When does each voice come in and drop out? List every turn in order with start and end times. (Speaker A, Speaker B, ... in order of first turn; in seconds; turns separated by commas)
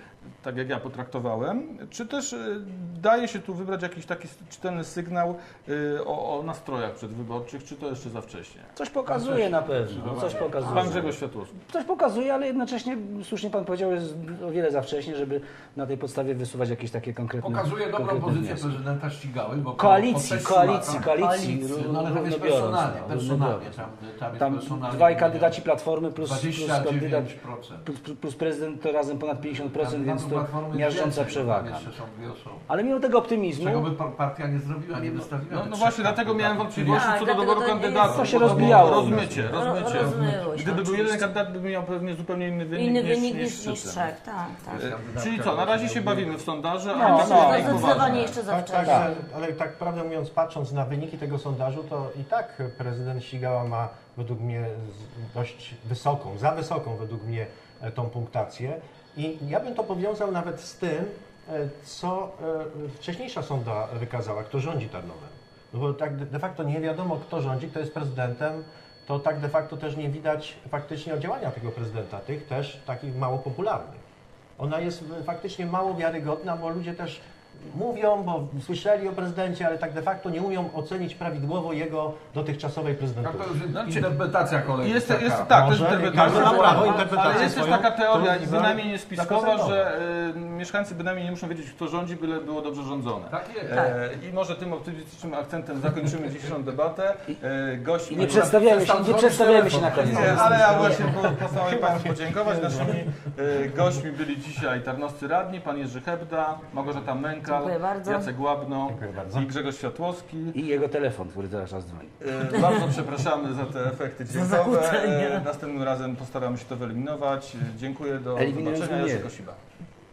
Speaker A: 0.4-8.7, Speaker B: 8.8-18.8, Speaker C: 9.1-11.1, Speaker A: 10.6-11.6, Speaker C: 17.4-25.6, Speaker B: 19.8-23.8, Speaker B: 24.4-27.3, Speaker C: 26.2-27.9, Speaker B: 27.8-31.9, Speaker C: 29.5-32.6, Speaker B: 32.7-33.9, Speaker C: 33.5-37.1, Speaker A: 35.5-44.1, Speaker D: 36.8-38.3, Speaker C: 38.0-40.4, Speaker B: 38.0-39.5, Speaker D: 39.5-41.3, Speaker D: 42.7-44.8, Speaker C: 44.7-46.4, Speaker A: 44.8-48.4, Speaker B: 46.9-48.1, Speaker D: 46.9-49.1, Speaker E: 48.5-74.0, Speaker B: 48.8-49.1, Speaker E: 74.6-83.5, Speaker C: 83.2-87.2, Speaker A: 83.8-84.1, Speaker A: 84.7-98.7, Speaker E: 85.5-89.9, Speaker D: 86.2-87.8, Speaker C: 93.3-93.8, Speaker B: 98.1-100.8, Speaker C: 98.2-101.1, Speaker A: 99.9-110.5, Speaker E: 101.0-103.1, Speaker D: 107.5-108.3, Speaker E: 108.8-109.5, Speaker B: 110.5-112.1, Speaker A: 112.2-119.6, Speaker D: 112.5-112.9, Speaker D: 114.3-115.5, Speaker B: 118.4-119.3